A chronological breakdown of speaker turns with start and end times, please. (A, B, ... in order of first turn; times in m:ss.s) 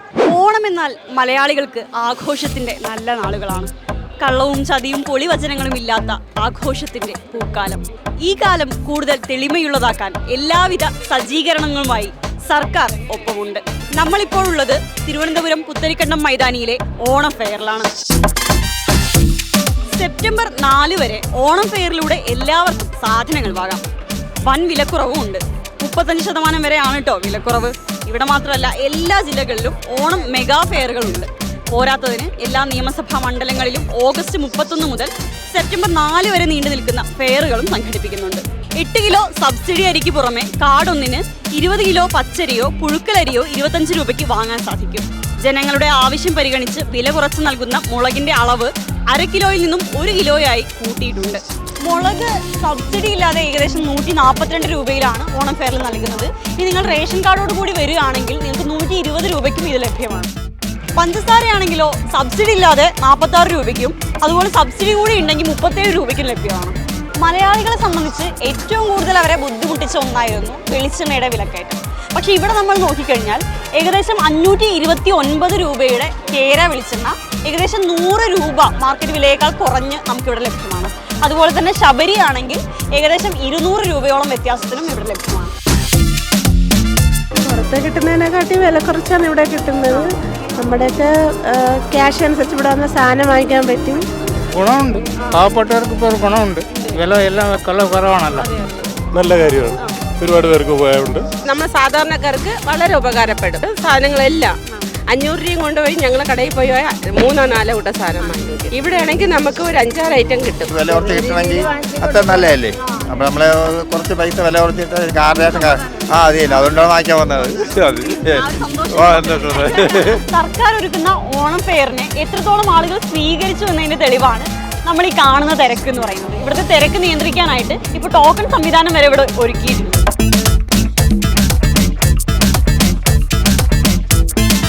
0:00.2-0:17.9 A
0:19.9-0:23.8 A
0:24.4-1:00.3 A
1:01.0-1:25.5 A
1:27.4-1:34.0 B
1:34.5-1:38.5 C
1:39.1-1:41.3 D
1:41.4-1:44.6 E
1:45.1-1:50.7 E
1:50.6-2:00.2 F
1:57.8-2:10.0 A